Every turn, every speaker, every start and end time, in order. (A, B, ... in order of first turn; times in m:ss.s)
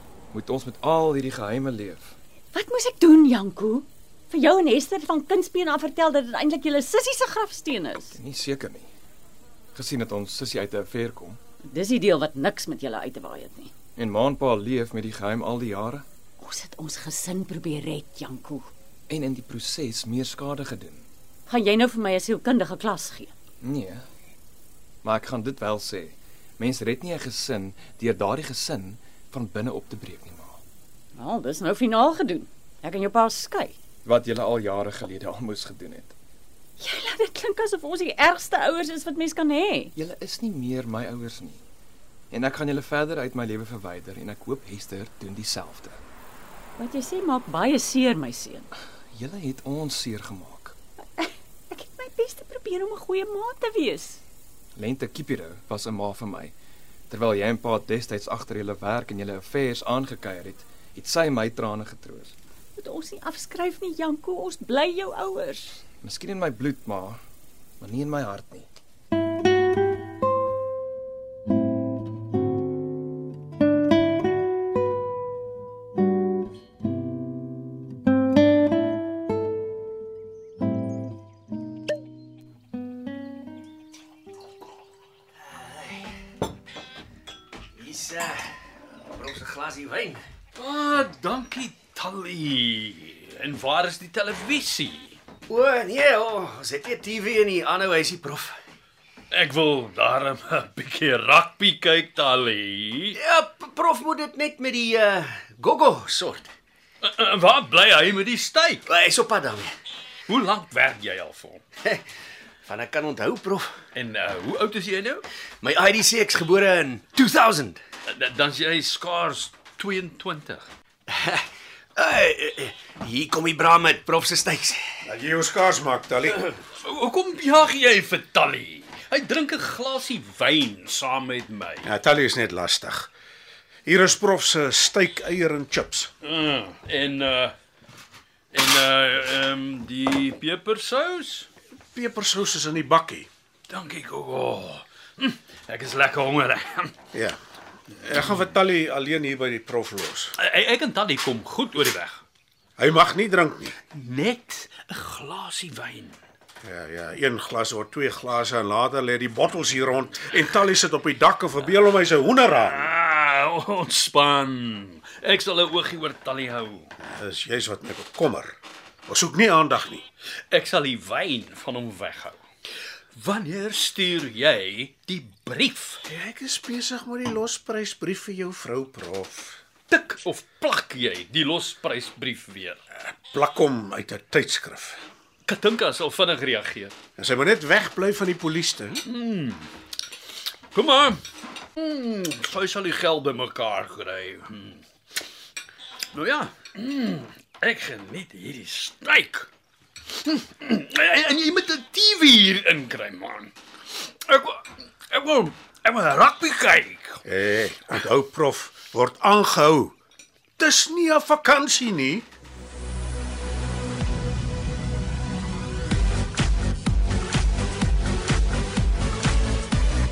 0:00.3-0:02.1 A
0:02.5-0:08.2 B
0:08.1-0:08.9 A
0:09.7-0:11.4 A
0:11.6-0:13.7 B
0:14.0-0:16.0 A
0:16.4-0:18.7 B
0:19.1-0:21.0 A
0:21.5-0:23.3 B
0:23.6-0:24.0 A
0:25.0-0:30.6 A
0:31.2-0:33.7 B
0:34.0-0:36.1 A
0:36.8-0:39.9 B
0:40.0-0:41.6 A
0:42.3-0:46.0 A
0:46.8-0:48.7 B
0:49.1-0:50.7 A
0:51.2-0:54.2 B
0:54.7-0:56.5 A
0:57.1-1:02.3 A
1:02.8-1:05.8 B
1:06.0-1:07.2 A
1:07.8-1:08.7 A
1:25.5-1:26.1 C
1:27.8-1:28.5 C
1:29.1-1:30.2 C
1:30.5-1:35.2 D
1:35.5-1:38.6 C
1:39.3-1:43.2 D
1:43.1-1:46.5 C
1:47.0-1:48.8 D
1:48.8-1:49.7 C
1:50.3-1:51.6 D
1:52.6-1:53.8 C
1:53.9-1:55.2 D
1:55.6-1:57.8 C
1:58.0-2:00.7 D
2:01.1-2:05.0 C
2:05.0-2:06.4 E
2:06.2-2:11.9 D
2:11.8-2:13.1 E
2:13.8-2:16.1 E
2:16.2-2:17.5 D
2:18.5-2:21.5 D
2:21.9-2:23.3 E
2:23.7-2:27.0 D
2:28.0-2:30.3 E
2:30.4-2:32.2 D
2:32.8-2:33.7 E
2:33.9-2:36.2 D
2:36.6-2:42.9 E
2:42.5-2:46.9 D
2:47.1-2:48.5 E
2:49.1-2:50.0 E
2:50.5-2:52.4 D
2:53.1-2:56.0 D
2:56.1-2:59.6 E
2:59.9-3:02.8 D
3:03.3-3:05.0 E
3:05.4-3:07.0 D
3:07.2-3:09.0 E
3:09.0-3:09.7 D
3:10.7-3:11.2 D
3:11.8-3:14.8 D
3:16.1-3:19.5 D
3:20.2-3:27.2 D
3:27.2-3:29.9 E
3:30.6-3:32.3 E